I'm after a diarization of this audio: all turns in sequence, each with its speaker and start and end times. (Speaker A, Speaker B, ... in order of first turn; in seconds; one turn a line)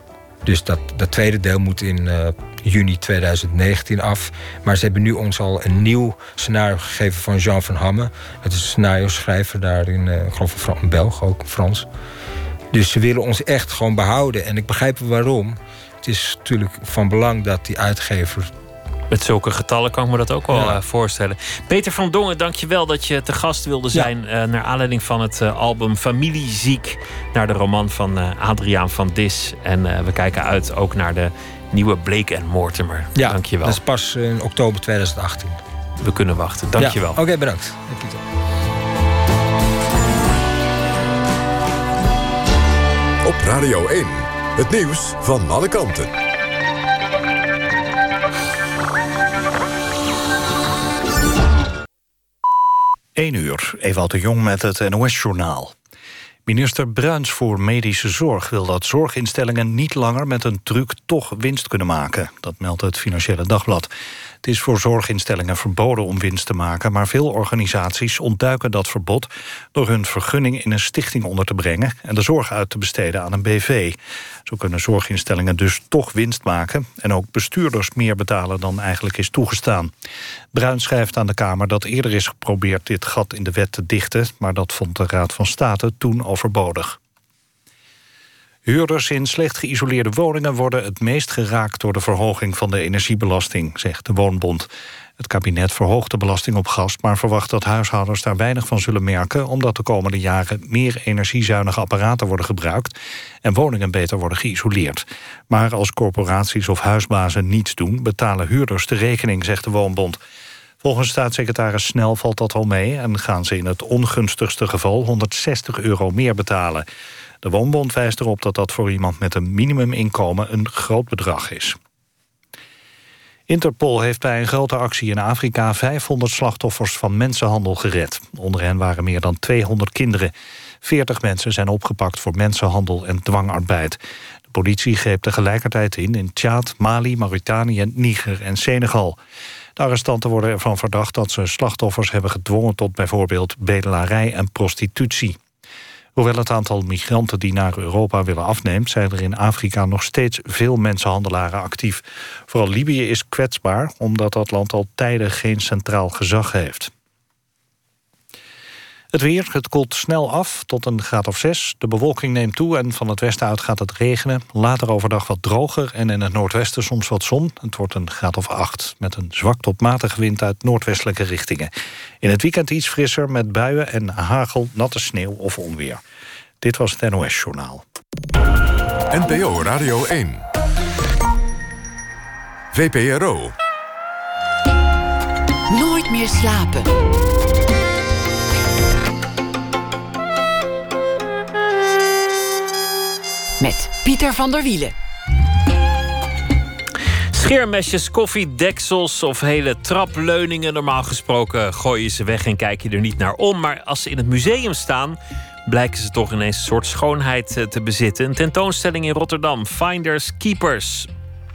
Speaker A: 0.4-11.9
Speaker A: 12.7-18.5
Speaker B: 19.1-33.8
Speaker A: 20.5-20.8
Speaker A: 33.1-35.6
Speaker B: 36.0-37.2
Speaker A: 36.8-38.2
Speaker C: 43.2-46.1
Speaker D: 53.1-55.7
Speaker D: 56.5-63.9
Speaker D: 64.4-79.9
Speaker D: 80.5-87.0
Speaker D: 88.7-110.2
Speaker D: 110.8-116.8
Speaker D: 117.4-121.8
Speaker D: 123.5-130.3
Speaker D: 130.8-139.2
Speaker D: 139.8-145.4
Speaker D: 146.2-156.9
Speaker D: 159.1-171.7
Speaker D: 172.2-176.0
Speaker D: 176.6-177.8
Speaker C: 179.1-180.4
Speaker C: 182.7-183.5
Speaker E: 185.7-186.9
Speaker E: 193.6-194.9
Speaker B: 197.3-211.1